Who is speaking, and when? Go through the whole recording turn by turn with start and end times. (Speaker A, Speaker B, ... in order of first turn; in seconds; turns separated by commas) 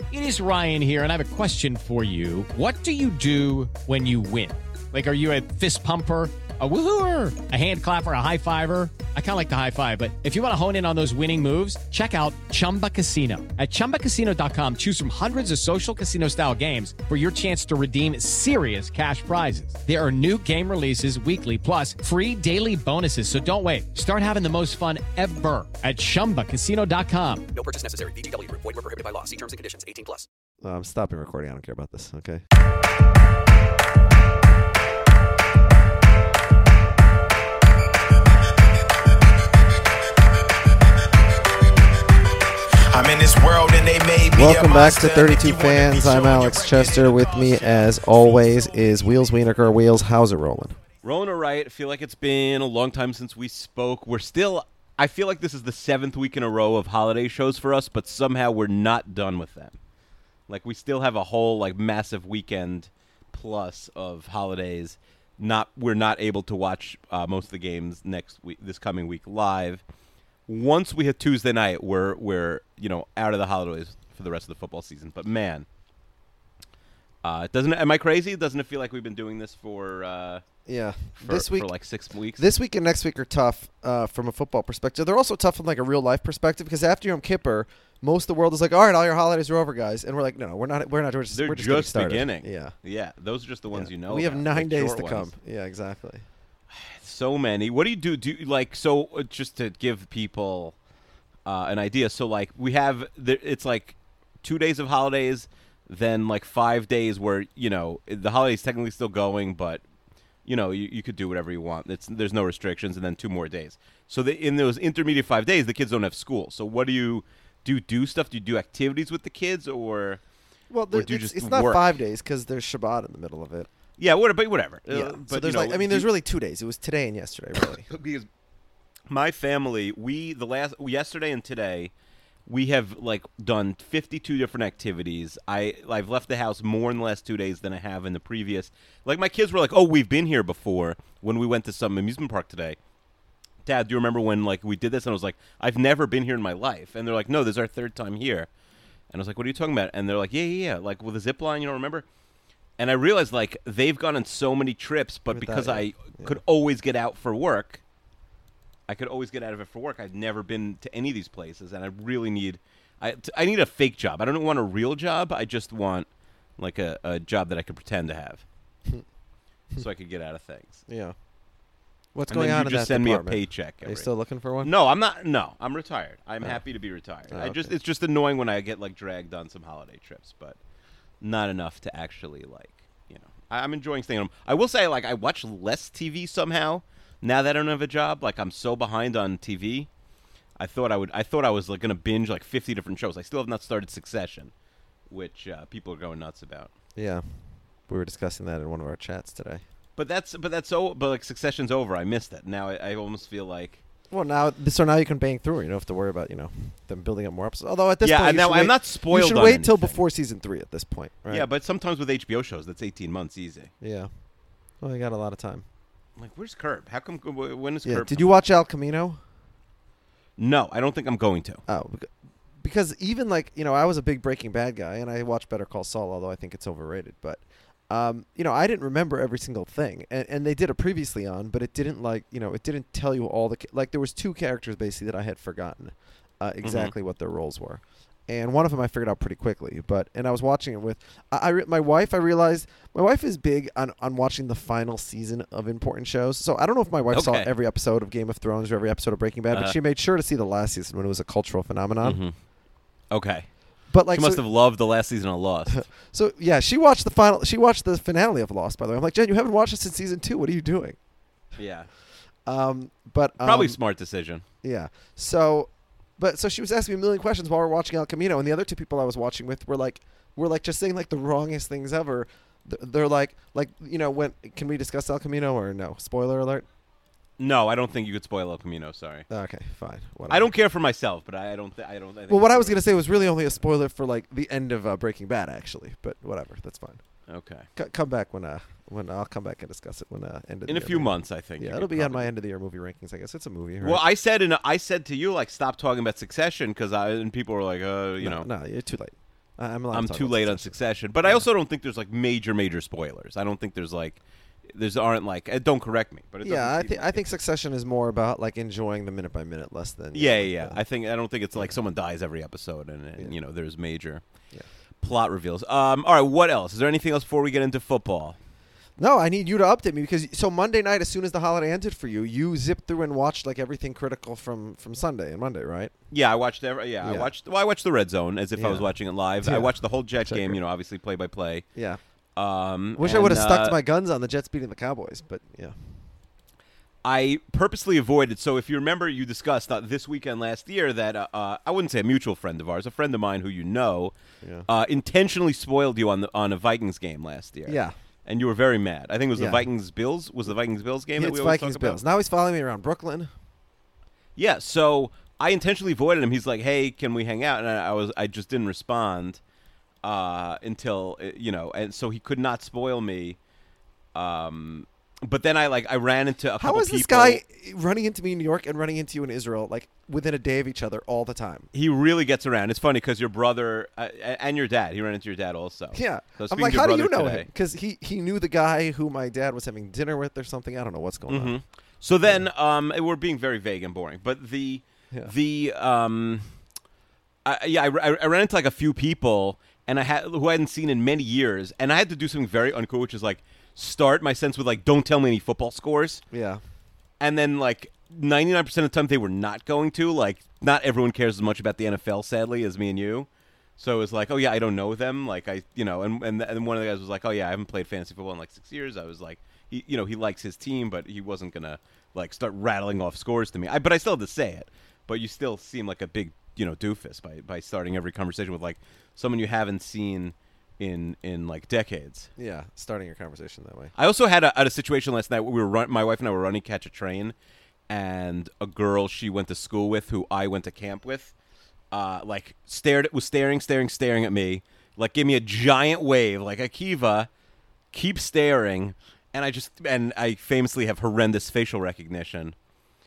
Speaker A: 0.1-27.5, Speaker B: 27.5-30.3, Speaker C: 30.6-32.4, Speaker D: 42.9-48.9, Speaker C: 44.3-50.8, Speaker E: 51.0-59.8, Speaker E: 60.5-69.8, Speaker E: 70.5-75.7, Speaker E: 77.2-80.4, Speaker C: 80.7-81.7, Speaker E: 81.2-82.4, Speaker C: 82.4-92.7, Speaker E: 91.3-95.3, Speaker C: 93.7-96.2, Speaker E: 96.7-100.8, Speaker E: 101.5-109.8, Speaker E: 110.5-120.2, Speaker C: 120.7-123.7, Speaker E: 120.9-121.9, Speaker E: 124.0-126.1, Speaker C: 124.9-127.9, Speaker E: 127.6-128.3, Speaker E: 129.1-131.9, Speaker E: 132.5-142.8, Speaker E: 143.7-148.5, Speaker E: 149.1-152.1, Speaker E: 152.8-157.8, Speaker C: 155.3-156.4, Speaker E: 158.9-166.1, Speaker E: 166.6-168.4, Speaker E: 169.8-170.8, Speaker C: 170.9-171.2, Speaker C: 172.1-174.7, Speaker E: 172.3-174.1, Speaker E: 174.6-180.6, Speaker C: 177.3-177.7, Speaker E: 181.2-189.9, Speaker E: 190.6-194.5, Speaker E: 195.1-196.7, Speaker C: 197.0-197.2, Speaker C: 197.9-199.6, Speaker E: 200.0-203.8, Speaker C: 204.1-211.5, Speaker E: 208.0-210.0, Speaker E: 211.3-213.7, Speaker C: 213.8-214.1, Speaker C: 214.8-215.7, Speaker E: 216.2-218.3, Speaker C: 217.9-219.2, Speaker E: 220.4-221.6, Speaker C: 221.7-222.1, Speaker C: 222.6-252.2, Speaker E: 236.6-236.9, Speaker E: 247.1-247.5, Speaker E: 252.0-252.3, Speaker E: 253.1-253.5, Speaker C: 253.9-254.4, Speaker E: 254.1-255.8, Speaker C: 255.7-261.0, Speaker E: 261.6-261.9, Speaker C: 262.5-263.8, Speaker E: 263.4-264.4, Speaker C: 264.6-276.7, Speaker E: 277.4-279.3, Speaker C: 279.3-280.5, Speaker E: 280.3-283.6, Speaker C: 282.3-287.0, Speaker E: 287.3-287.7, Speaker C: 287.8-294.0, Speaker E: 290.7-292.3, Speaker E: 293.8-298.5, Speaker C: 298.2-301.5, Speaker E: 299.9-307.2, Speaker C: 306.4-310.8, Speaker E: 310.1-314.2, Speaker E: 315.0-318.4, Speaker C: 319.0-325.9, Speaker E: 326.1-331.7, Speaker C: 327.0-327.3, Speaker C: 328.6-330.6, Speaker E: 332.4-333.8, Speaker C: 333.0-335.8, Speaker E: 337.1-344.1, Speaker E: 344.7-352.0, Speaker C: 347.7-347.9, Speaker C: 349.4-349.6, Speaker C: 351.2-353.3, Speaker E: 354.4-359.4, Speaker E: 360.0-363.4, Speaker E: 364.1-367.4, Speaker C: 366.6-371.7, Speaker E: 371.7-377.5, Speaker C: 375.9-381.6, Speaker E: 381.3-386.5, Speaker E: 387.4-396.2, Speaker C: 396.3-396.6, Speaker E: 397.2-422.3, Speaker C: 422.4-423.9, Speaker E: 424.0-427.4, Speaker E: 427.9-431.3, Speaker E: 431.9-437.3, Speaker E: 437.9-442.6